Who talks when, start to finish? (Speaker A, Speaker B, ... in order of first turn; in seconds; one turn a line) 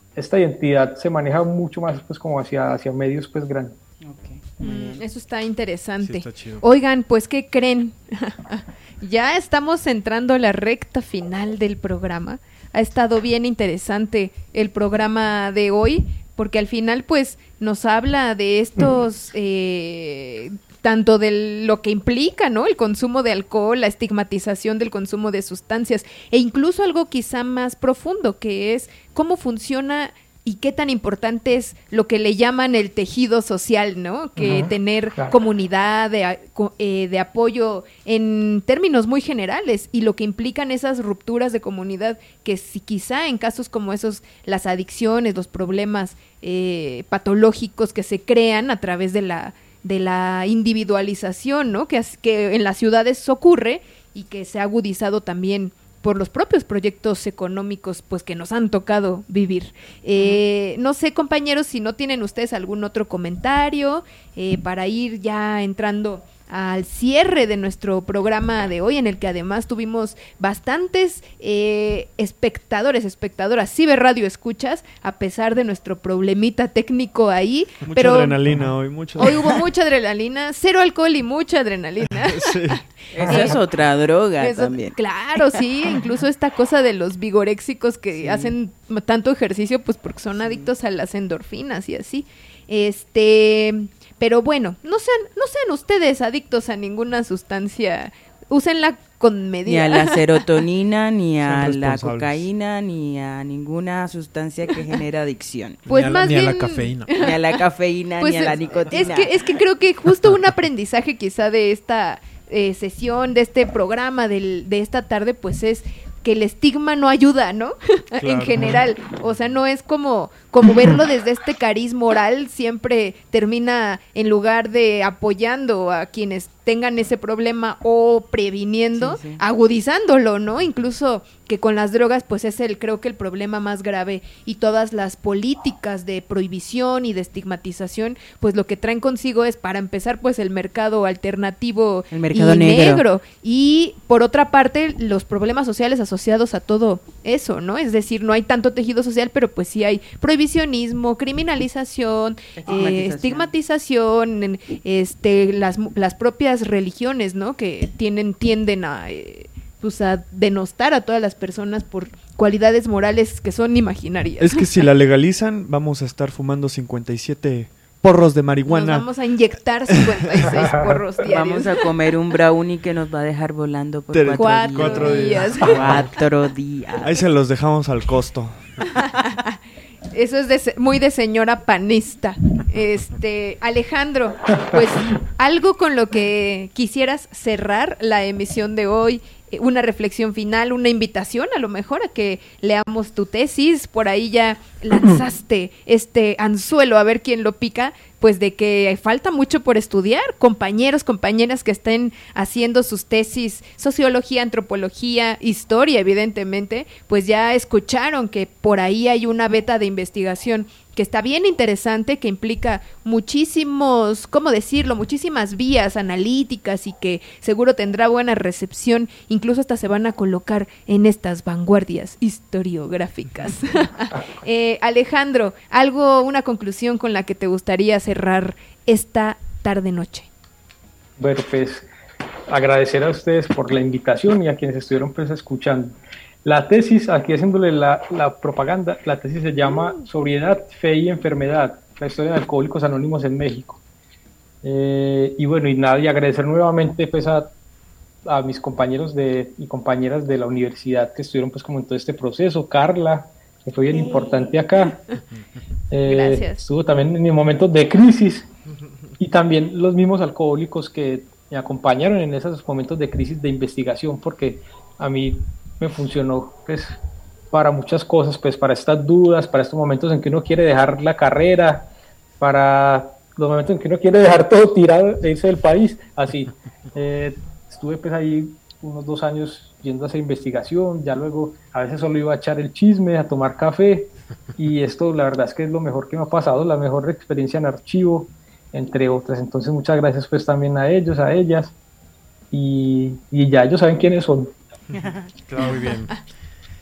Speaker A: 0.2-3.8
Speaker B: 4.0-5.0
Speaker C: 4.6-78.4
Speaker D: 6.0-6.6
Speaker A: 34.4-35.4
Speaker E: 77.9-79.3
Speaker C: 79.2-83.6
Speaker E: 82.0-82.8
Speaker B: 83.1-85.6
Speaker C: 84.4-100.2
Speaker B: 88.2-88.5
Speaker B: 90.4-90.7
Speaker B: 99.7-105.8
Speaker E: 101.4-102.5
Speaker D: 105.9-107.2
Speaker C: 105.9-107.6
Speaker B: 107.2-109.4
Speaker C: 108.2-164.7
Speaker E: 118.2-118.8
Speaker B: 129.0-129.4
Speaker B: 142.1-143.1
Speaker B: 152.6-153.5
Speaker E: 164.4-169.1
Speaker C: 168.7-171.8
Speaker E: 169.9-170.6
Speaker A: 170.5-170.8
Speaker B: 171.3-177.2
Speaker E: 174.1-176.1
Speaker C: 174.3-176.2
Speaker E: 177.0-178.6
Speaker C: 179.2-179.6
Speaker C: 180.1-230.3
Speaker A: 231.2-231.9
Speaker A: 232.5-243.8
Speaker A: 244.6-247.5
Speaker A: 248.3-255.1
Speaker A: 255.9-258.5
Speaker C: 256.0-256.6
Speaker A: 259.2-267.0
Speaker A: 267.5-291.7
Speaker A: 292.5-294.5
Speaker B: 295.0-295.3
Speaker D: 295.5-296.2